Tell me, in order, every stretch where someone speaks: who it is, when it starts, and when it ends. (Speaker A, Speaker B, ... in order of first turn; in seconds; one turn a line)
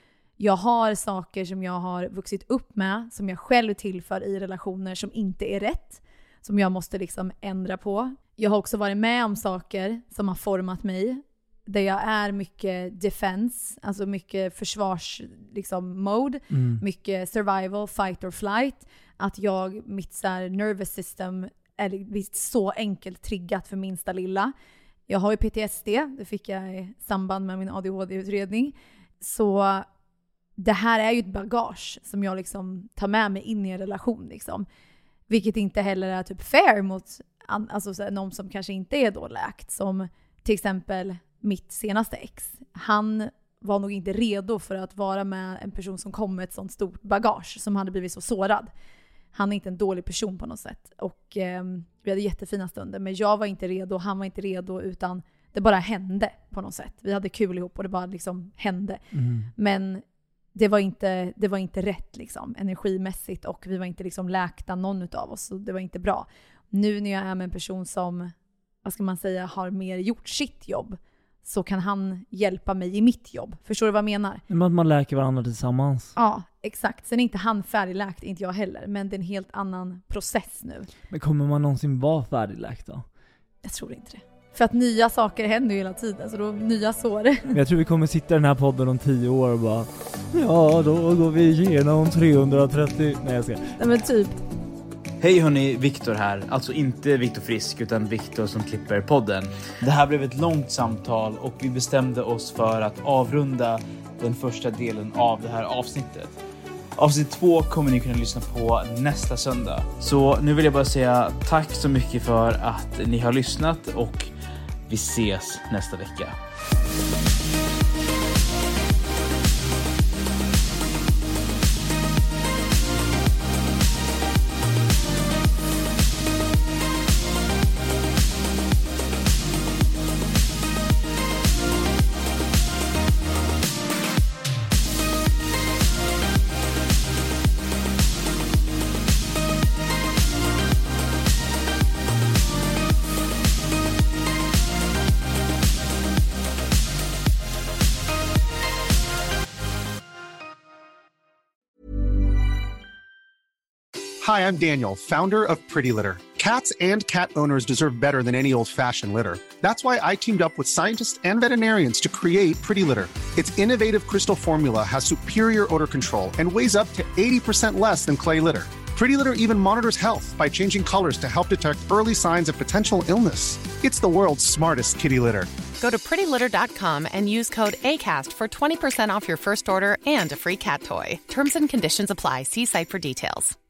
Speaker A: 0.4-24.5
Speaker B: 16.5-16.8
Speaker A: 25.1-29.9
Speaker A: 30.6-34.6
Speaker A: 35.3-48.7
Speaker A: 49.3-59.0
Speaker B: 59.1-59.5
Speaker A: 59.5-60.0
Speaker A: 60.5-74.4
Speaker B: 74.5-76.2
Speaker A: 76.2-80.9
Speaker B: 81.1-83.0
Speaker A: 83.6-87.5
Speaker B: 87.5-93.8
Speaker A: 93.8-94.4
Speaker C: 95.2-106.3
Speaker C: 107.0-114.3
Speaker C: 114.9-116.4
Speaker D: 154.2-175.5
Speaker E: 175.8-183.5